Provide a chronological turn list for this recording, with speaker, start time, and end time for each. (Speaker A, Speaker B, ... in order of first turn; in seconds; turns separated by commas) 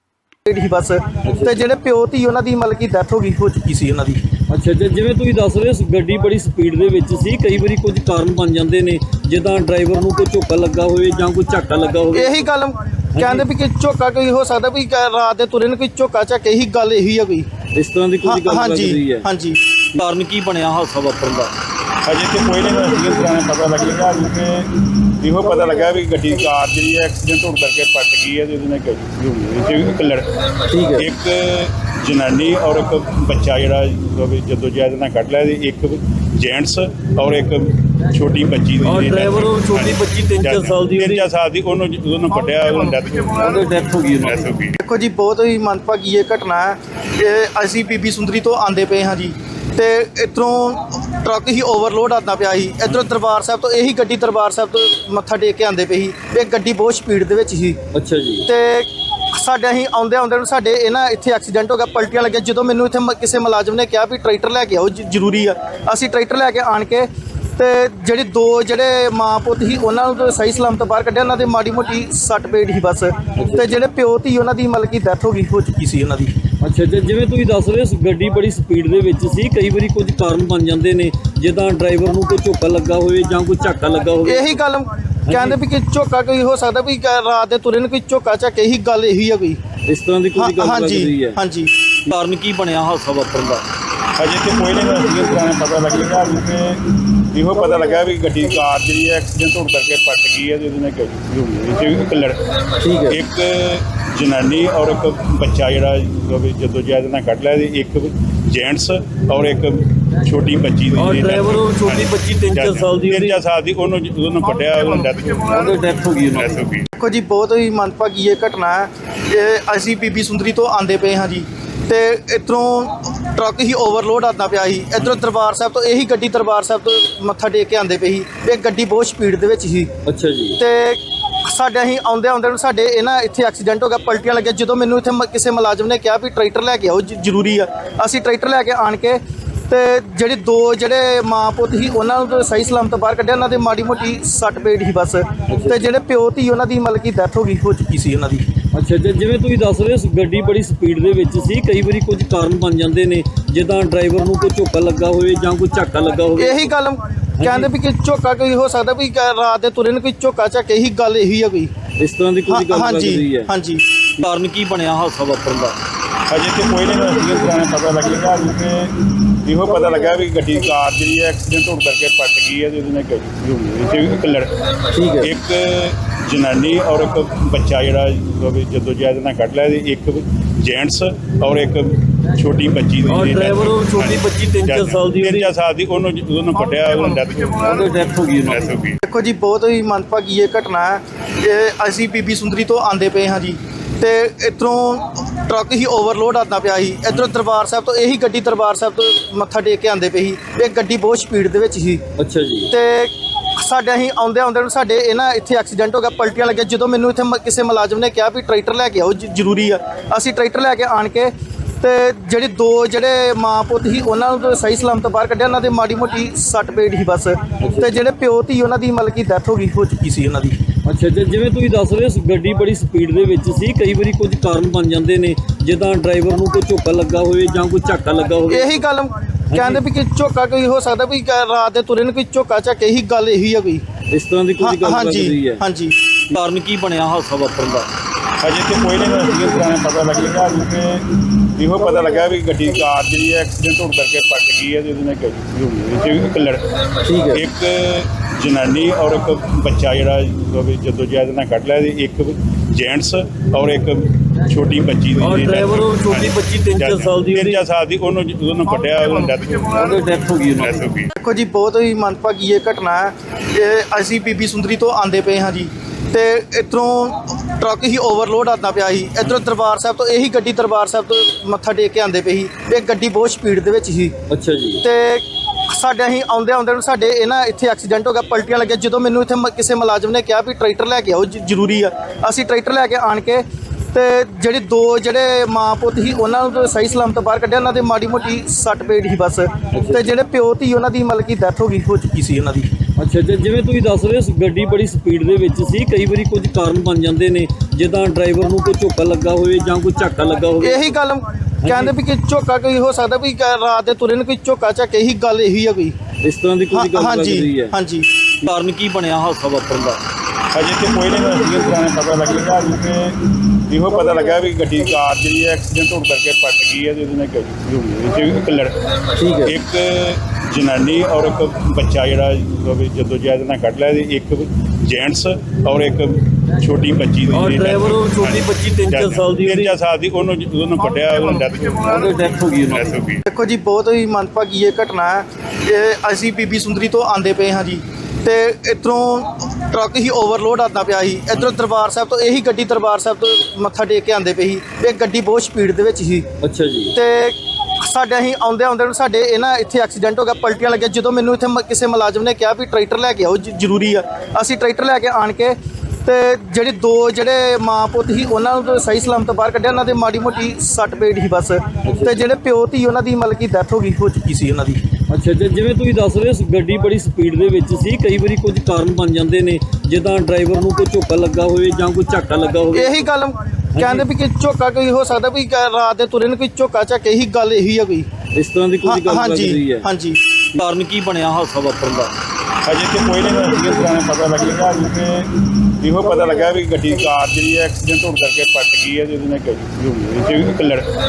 Speaker A: 0.5-4.2, Speaker B: 1.2-1.6, Speaker B: 4.5-12.4, Speaker A: 12.1-17.5, Speaker B: 13.2-13.5, Speaker B: 17.8-19.3, Speaker A: 18.2-19.6, Speaker B: 19.9-21.5, Speaker C: 22.1-24.7, Speaker C: 25.2-30.3, Speaker B: 30.7-31.1, Speaker C: 30.9-44.8, Speaker B: 39.0-41.2, Speaker B: 43.4-44.3, Speaker A: 44.8-57.8, Speaker B: 58.0-58.5, Speaker A: 58.5-76.3, Speaker B: 73.4-73.7, Speaker B: 76.6-84.6, Speaker A: 84.2-89.6, Speaker B: 85.3-85.6, Speaker B: 89.9-91.4, Speaker A: 90.4-91.7, Speaker B: 92.1-93.7, Speaker C: 94.2-96.8, Speaker C: 97.3-102.4, Speaker B: 102.8-103.2, Speaker C: 103.1-115.8, Speaker B: 111.0-113.4, Speaker B: 115.5-116.5, Speaker C: 116.3-116.8, Speaker A: 117.0-129.9, Speaker B: 130.1-130.6, Speaker A: 130.6-148.4, Speaker B: 145.5-145.8, Speaker B: 148.7-156.7, Speaker A: 156.4-161.7, Speaker B: 157.4-157.7, Speaker B: 162.0-163.5, Speaker A: 162.5-163.8, Speaker B: 164.2-165.8, Speaker C: 166.3-168.9, Speaker C: 169.4-174.5, Speaker B: 174.9-175.3, Speaker C: 175.2-187.8, Speaker B: 183.1-185.5, Speaker B: 187.6-188.7, Speaker C: 188.4-189.0, Speaker A: 189.0-202.0, Speaker B: 202.2-202.7, Speaker A: 202.7-220.6, Speaker B: 217.6-217.9, Speaker B: 220.9-228.8, Speaker A: 228.5-233.8, Speaker B: 229.5-229.8, Speaker B: 234.1-235.6, Speaker A: 234.6-236.0, Speaker B: 236.3-237.9, Speaker C: 238.4-241.1, Speaker C: 241.6-246.6, Speaker B: 247.1-247.4, Speaker C: 247.3-260.0, Speaker B: 255.2-257.6, Speaker B: 259.8-260.7, Speaker C: 260.5-261.1, Speaker A: 261.1-274.1, Speaker B: 274.3-274.8, Speaker A: 274.8-292.7, Speaker B: 289.7-290.0, Speaker B: 293.0-300.9, Speaker A: 300.6-305.9, Speaker B: 301.6-301.9, Speaker B: 306.2-307.7, Speaker A: 306.7-308.1, Speaker B: 308.4-310.0, Speaker C: 310.5-313.2, Speaker C: 313.7-318.7, Speaker B: 319.2-319.5, Speaker C: 319.4-332.1, Speaker B: 327.3-329.7, Speaker B: 331.9-332.8, Speaker C: 332.7-333.2, Speaker A: 333.3-346.3, Speaker B: 346.4-347.0, Speaker A: 346.9-364.8, Speaker B: 361.9-362.2, Speaker B: 365.1-373.1, Speaker A: 372.7-378.1, Speaker B: 373.8-374.1, Speaker B: 378.4-379.9, Speaker A: 378.8-380.2, Speaker B: 380.6-382.2, Speaker C: 382.7-385.3, Speaker C: 385.8-390.9